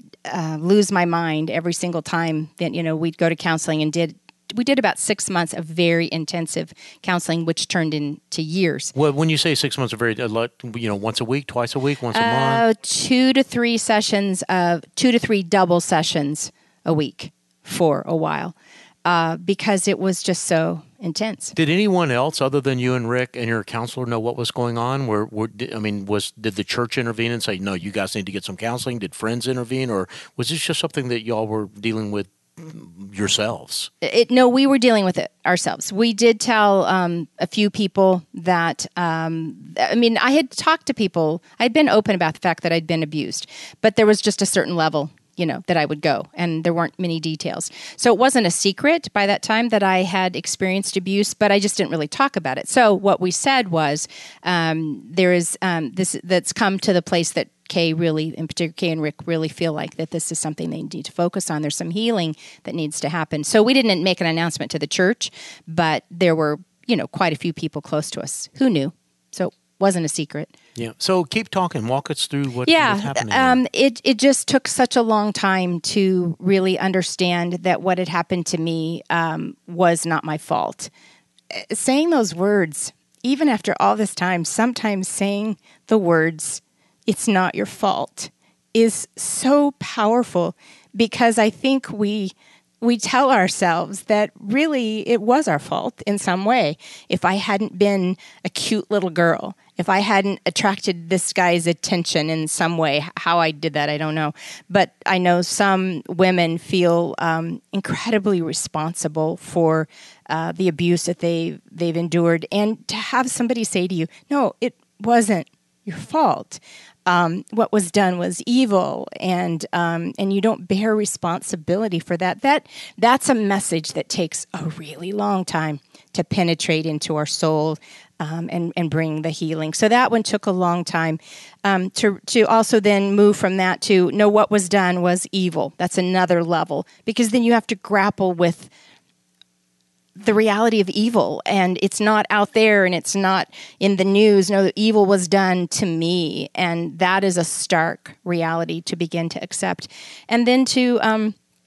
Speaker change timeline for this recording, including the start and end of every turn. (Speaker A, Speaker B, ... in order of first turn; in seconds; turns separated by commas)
Speaker A: 0.2-8.9, Speaker B: 8.9-12.6, Speaker A: 12.1-21.5, Speaker B: 21.5-33.9, Speaker A: 34.0-70.5, Speaker B: 70.8-73.6, Speaker A: 72.6-80.9, Speaker A: 81.5-138.7, Speaker A: 140.2-151.3